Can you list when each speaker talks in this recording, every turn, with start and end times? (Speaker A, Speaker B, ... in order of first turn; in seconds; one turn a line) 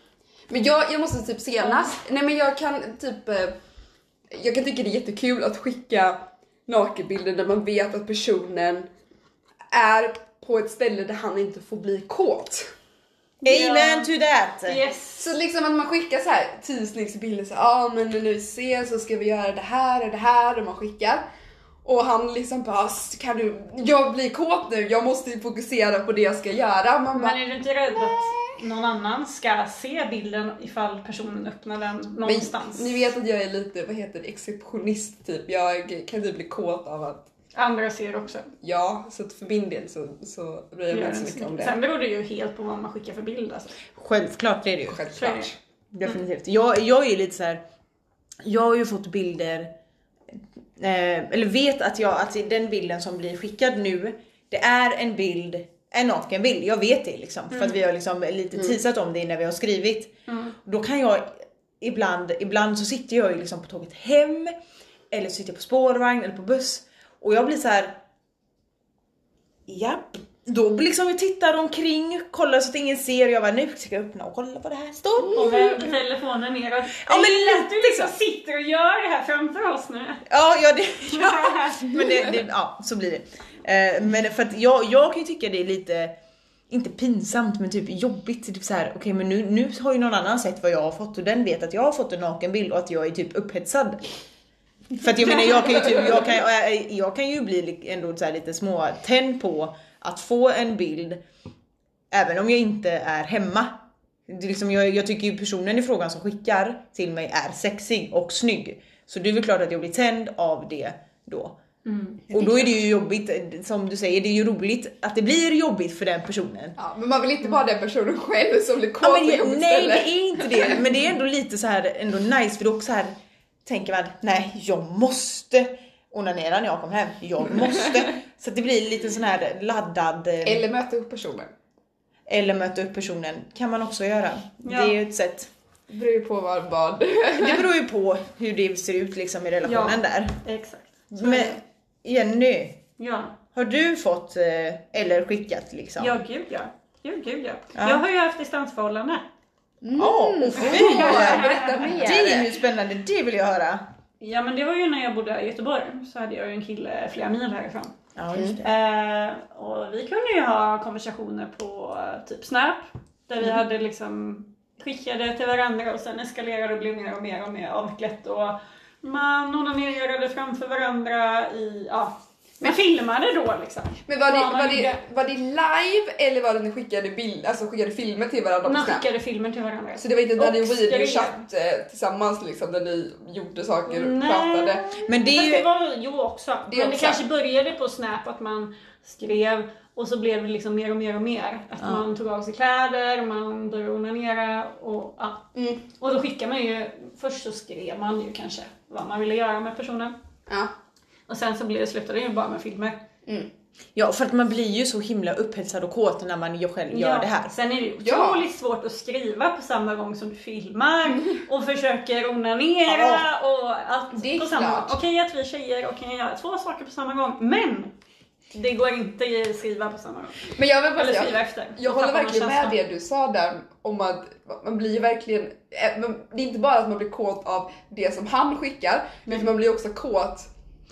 Speaker A: 0.5-3.5
Speaker A: 4.3-8.9
Speaker A: 9.7-12.7
Speaker B: 13.4-14.8
Speaker C: 13.4-14.1
Speaker C: 14.7-15.3
Speaker A: 15.2-21.2
Speaker A: 21.9-27.4
Speaker C: 27.1-33.1
Speaker A: 27.9-28.6
Speaker A: 32.2-37.3
Speaker C: 37.5-38.5
Speaker A: 38.6-41.8
Speaker C: 40.9-43.8
Speaker B: 44.0-45.1
Speaker A: 44.9-45.6
Speaker C: 45.1-45.5
Speaker B: 45.9-47.6
Speaker B: 48.4-49.7
Speaker B: 50.3-64.5
Speaker C: 57.5-57.8
Speaker C: 60.3-60.5
Speaker B: 65.1-68.0
Speaker B: 69.7-75.8
Speaker C: 75.3-80.2
Speaker B: 77.0-78.1
Speaker B: 80.3-86.1
Speaker C: 81.1-81.9
Speaker B: 86.7-94.1
Speaker B: 95.0-101.2
Speaker B: 102.1-111.6
Speaker C: 111.9-112.2
Speaker B: 112.3-116.8
Speaker A: 112.3-112.7
Speaker A: 116.8-120.8
Speaker B: 119.0-123.1
Speaker B: 123.7-130.7
Speaker A: 130.4-131.5
Speaker B: 132.3-135.5
Speaker C: 134.6-135.0
Speaker A: 135.9-137.7
Speaker B: 137.4-140.4
Speaker C: 139.6-141.6
Speaker B: 141.1-142.8
Speaker C: 143.0-143.4
Speaker B: 143.5-146.2
Speaker C: 146.0-149.2
Speaker B: 147.8-148.0
Speaker A: 149.8-152.6
Speaker B: 150.0-153.8
Speaker C: 150.5-152.0
Speaker C: 154.2-157.9
Speaker B: 158.2-158.7
Speaker A: 158.3-158.6
Speaker C: 158.6-175.0
Speaker A: 174.1-179.1
Speaker C: 178.7-181.4
Speaker A: 180.0-184.9
Speaker C: 183.9-200.2
Speaker B: 185.1-185.7
Speaker A: 186.7-187.2
Speaker A: 195.6-195.8
Speaker C: 201.3-203.0
Speaker B: 203.9-207.5
Speaker C: 206.9-217.9
Speaker A: 208.0-208.5
Speaker A: 211.1-211.4
Speaker B: 212.9-213.2
Speaker A: 214.1-215.0
Speaker C: 218.5-222.8
Speaker A: 220.5-230.5